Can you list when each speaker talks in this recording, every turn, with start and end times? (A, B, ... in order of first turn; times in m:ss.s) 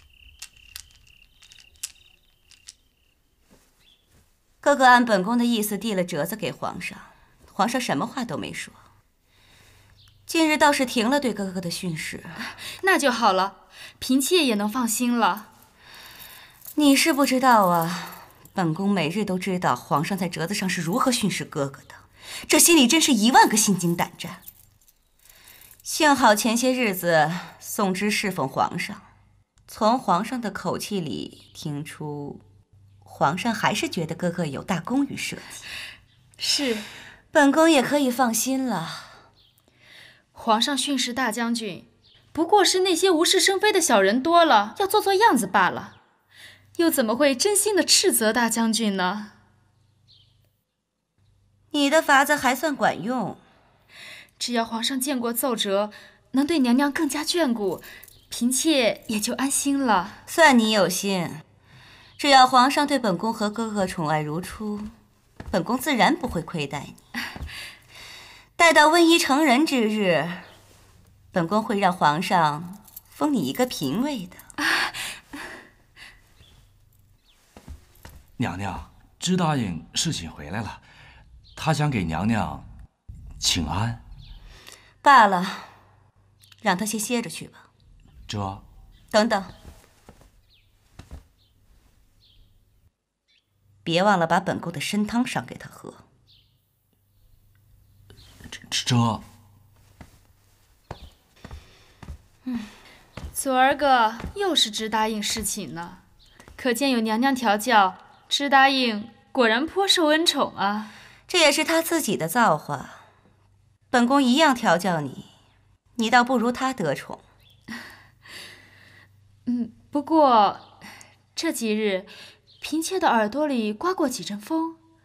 0:04.6-0:08.8 A
0:10.3-0:12.4 A
0:12.8-0:15.5 B
0:16.7-0:24.4 A
0:25.8-0:29.0 A
0:29.7-0:32.4 A
0:33.0-0:35.6 A
0:36.4-0:36.9 B
0:37.3-0:39.2 A
0:40.3-0:46.0 B
0:46.8-0:49.3 B
0:51.7-0:53.4 A
0:54.4-1:00.2 B
1:00.3-1:01.4 A
1:02.2-1:04.9 A
1:05.5-1:07.0 A
1:08.6-1:10.5 A
1:11.3-1:14.4 A
1:18.4-1:20.8 C
1:21.6-1:22.7 C
1:23.4-1:24.0 C
1:25.0-1:25.8 A
1:26.6-1:27.6 A
1:28.3-1:28.6 C
1:29.1-1:29.5 A
1:33.8-1:36.0 A
1:38.5-1:39.2 C
1:43.3-1:46.0 B
1:46.6-1:50.9 B
1:51.3-1:53.0 A
1:53.9-1:55.3 A
1:56.0-1:57.2 A
1:59.5-2:00.7 B
2:01.3-2:04.8 B